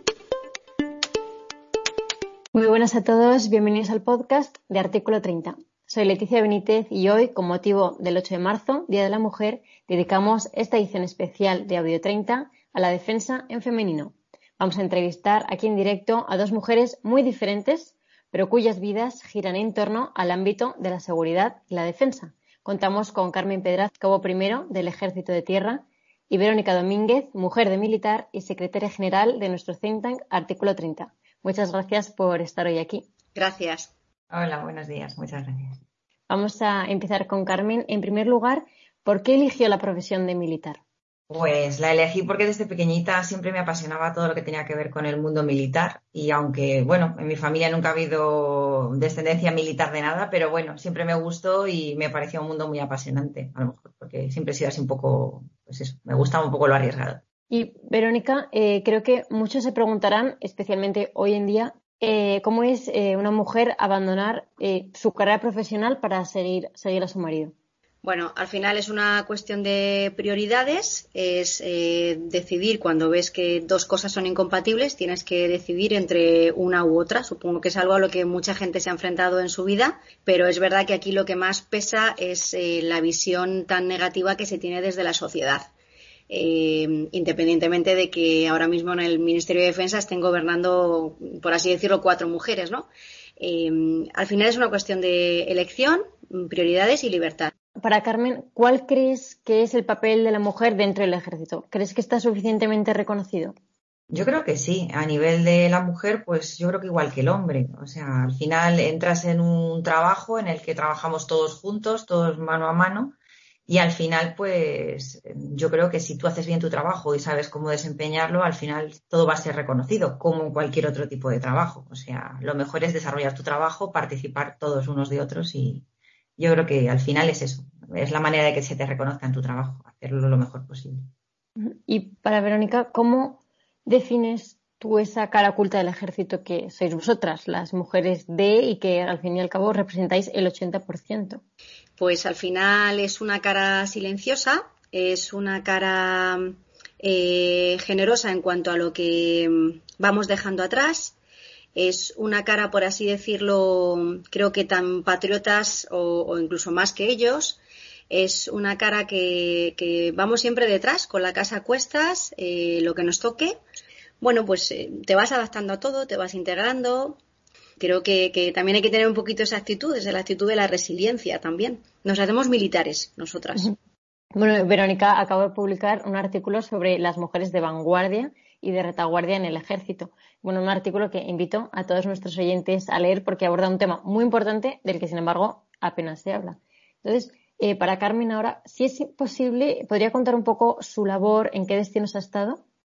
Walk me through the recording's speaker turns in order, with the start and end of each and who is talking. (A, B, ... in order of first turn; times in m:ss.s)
0:02.5-0:33.1 A
0:33.3-0:33.9 B
0:34.3-0:35.8 C
0:36.3-0:40.8 A
0:41.3-0:57.2 C
0:57.5-1:07.5 A
1:08.0-1:25.7 B
1:26.3-1:32.9 B
1:33.4-1:37.5 B
1:37.8-1:43.5 A
1:44.1-1:53.2 C
1:53.7-2:05.8 C
2:06.4-2:11.1 C
2:11.6-2:21.4 A
2:22.0-2:31.2 B
2:31.8-2:43.6 B
2:44.2-2:47.2 B
2:47.8-2:53.7 B
2:54.3-3:12.6 A